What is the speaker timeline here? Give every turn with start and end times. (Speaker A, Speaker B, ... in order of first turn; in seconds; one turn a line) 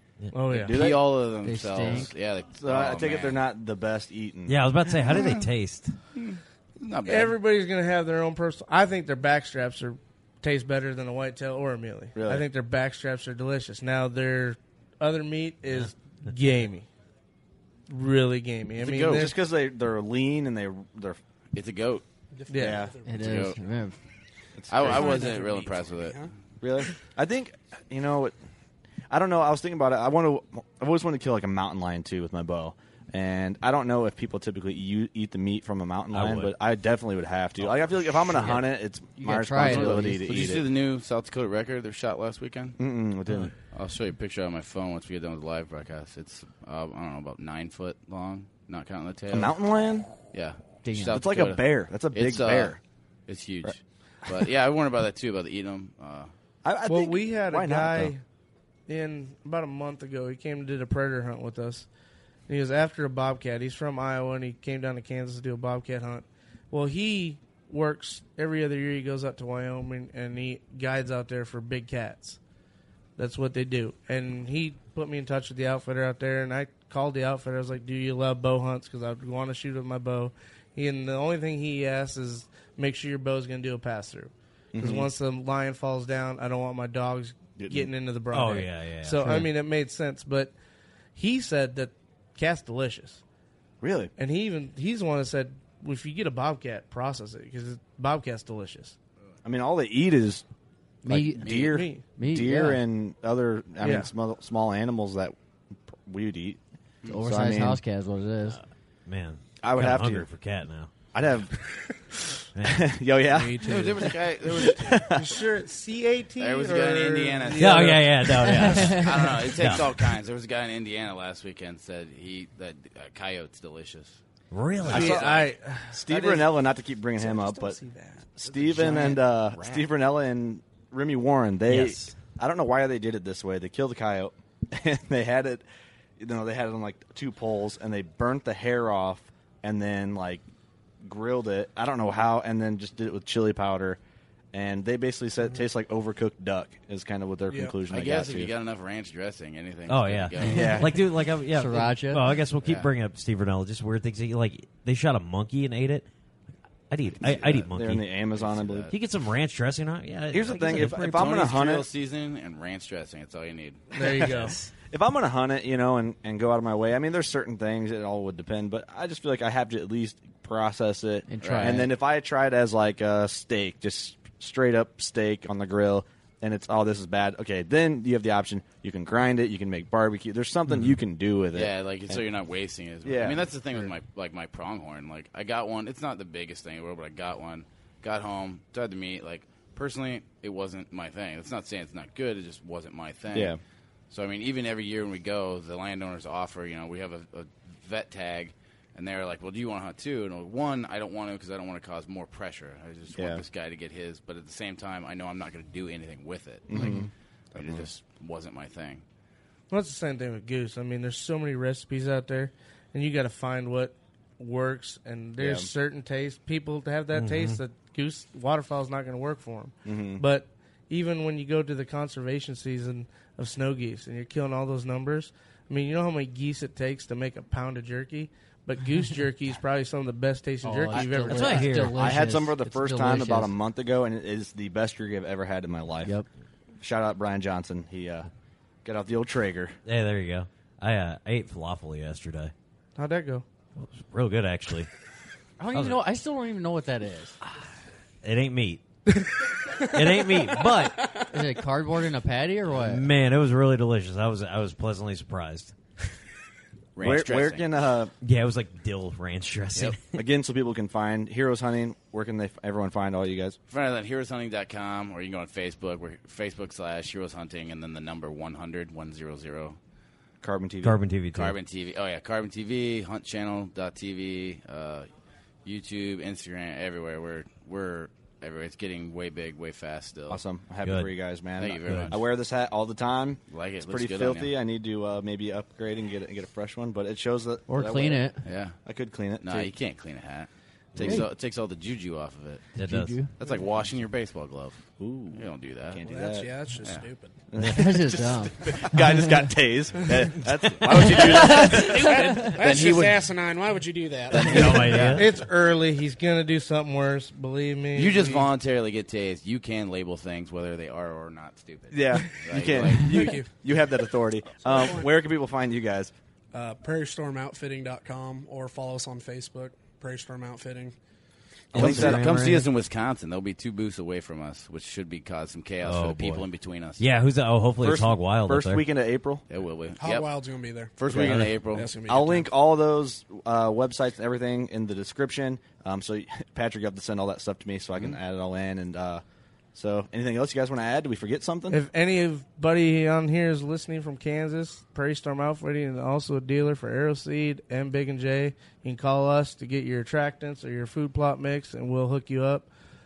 Speaker A: 0.3-0.8
Speaker B: 0.5-1.1
Speaker C: 0.6-3.4
Speaker D: 1.4-2.1
Speaker B: 2.5-4.6
Speaker E: 4.5-5.9
Speaker C: 5.0-5.4
Speaker C: 6.2-7.3
Speaker A: 7.0-16.9
Speaker B: 12.1-12.4
Speaker A: 17.9-19.3
Speaker C: 18.8-19.3
Speaker B: 18.9-21.2
Speaker C: 21.5-22.0
Speaker F: 22.3-23.6
Speaker A: 22.5-22.8
Speaker B: 22.6-22.9
Speaker D: 23.0-24.0
Speaker C: 23.2-23.6
Speaker B: 24.6-25.3
Speaker C: 24.7-26.3
Speaker F: 24.8-26.3
Speaker B: 26.6-28.3
Speaker B: 29.1-40.6
Speaker E: 36.1-36.5
Speaker E: 38.3-38.6
Speaker D: 39.2-40.6
Speaker C: 39.6-42.8
Speaker B: 42.8-43.5
Speaker C: 43.7-49.5
Speaker B: 49.3-50.1
Speaker C: 50.3-56.3
Speaker D: 50.8-51.2
Speaker B: 51.1-52.8
Speaker B: 56.6-58.1
Speaker A: 56.9-58.2
Speaker A: 58.9-61.9
Speaker A: 62.5-72.4
Speaker A: 73.2-90.5
Speaker B: 84.7-85.1
Speaker B: 87.6-87.9
Speaker E: 88.3-89.4
Speaker A: 91.1-93.2
Speaker B: 93.8-94.1
Speaker A: 94.2-99.0
Speaker B: 99.4-100.5
Speaker D: 101.0-102.8
Speaker B: 101.0-105.3
Speaker A: 101.5-102.0
Speaker A: 103.8-104.1
Speaker B: 105.9-106.6
Speaker D: 107.1-108.6
Speaker B: 107.2-107.8
Speaker E: 109.1-110.9
Speaker B: 109.6-110.3
Speaker B: 111.1-112.0
Speaker E: 112.5-114.1
Speaker B: 112.6-115.4
Speaker C: 113.6-115.0
Speaker A: 115.2-118.7
Speaker C: 116.4-118.0
Speaker E: 117.6-119.9
Speaker D: 118.4-119.4
Speaker C: 118.7-124.2
Speaker E: 124.5-125.2
Speaker C: 124.8-125.4
Speaker B: 124.9-125.4
Speaker A: 124.9-126.5
Speaker B: 125.9-127.8
Speaker A: 127.2-128.3
Speaker B: 128.4-135.6
Speaker C: 128.5-129.9
Speaker E: 131.7-132.1
Speaker B: 136.2-140.4
Speaker B: 141.0-144.0
Speaker B: 144.5-148.5
Speaker F: 147.5-147.7
Speaker C: 147.9-150.8
Speaker E: 149.9-156.1
Speaker B: 150.4-151.0
Speaker D: 151.3-152.3
Speaker C: 152.6-152.9
Speaker E: 156.9-158.1
Speaker C: 157.2-157.7
Speaker B: 157.6-158.9
Speaker C: 158.3-158.9
Speaker E: 158.9-161.5
Speaker B: 160.3-161.9
Speaker C: 160.8-163.9
Speaker A: 163.9-164.6
Speaker B: 164.0-182.2
Speaker D: 171.3-171.9
Speaker C: 171.4-171.8
Speaker C: 181.5-193.6
Speaker B: 183.0-183.5
Speaker B: 193.3-193.6
Speaker C: 194.1-209.0
Speaker B: 203.1-203.4
Speaker B: 206.7-207.9
Speaker A: 209.7-231.9
Speaker B: 215.4-215.7
Speaker E: 217.1-217.6
Speaker B: 219.8-220.2
Speaker D: 230.6-233.6
Speaker E: 230.9-232.1
Speaker B: 231.9-236.1
Speaker B: 236.8-238.3
Speaker B: 238.8-239.8
Speaker E: 239.8-242.5
Speaker A: 242.9-243.4
Speaker E: 243.8-244.9
Speaker D: 245.6-247.4
Speaker E: 245.7-246.1
Speaker E: 248.2-248.8
Speaker E: 249.9-251.0
Speaker D: 251.3-253.1
Speaker E: 252.7-255.7
Speaker C: 256.9-257.7
Speaker B: 257.0-258.1
Speaker E: 258.2-260.2
Speaker B: 260.1-263.6
Speaker C: 263.7-269.8
Speaker B: 270.4-271.0
Speaker E: 270.8-271.6
Speaker C: 271.3-275.1
Speaker C: 275.6-280.4
Speaker B: 280.3-288.3
Speaker E: 280.8-281.1
Speaker C: 281.6-282.2
Speaker E: 281.8-282.1
Speaker C: 283.5-284.5
Speaker D: 287.7-288.4
Speaker C: 288.4-288.8
Speaker B: 288.8-289.7
Speaker C: 289.4-292.7
Speaker E: 290.9-291.2
Speaker E: 292.8-293.2
Speaker D: 292.8-293.3
Speaker C: 293.4-296.0
Speaker B: 295.0-296.5
Speaker F: 296.1-297.4
Speaker B: 297.5-302.2
Speaker D: 297.6-299.4
Speaker C: 300.9-303.3
Speaker F: 301.8-305.1
Speaker D: 302.2-302.5
Speaker C: 304.3-305.2
Speaker E: 304.4-305.3
Speaker A: 305.1-308.4
Speaker C: 307.9-313.3
Speaker B: 311.9-316.1
Speaker F: 312.7-313.5
Speaker F: 314.6-315.1
Speaker F: 316.5-320.9
Speaker B: 321.7-322.4
Speaker C: 321.7-327.0
Speaker D: 321.8-322.7
Speaker E: 325.8-326.4
Speaker E: 327.0-328.8
Speaker B: 327.8-329.4
Speaker C: 329.5-330.3
Speaker F: 330.0-332.5
Speaker C: 330.9-331.9
Speaker E: 331.2-331.5
Speaker B: 332.1-339.2
Speaker B: 339.7-341.8
Speaker A: 341.7-352.7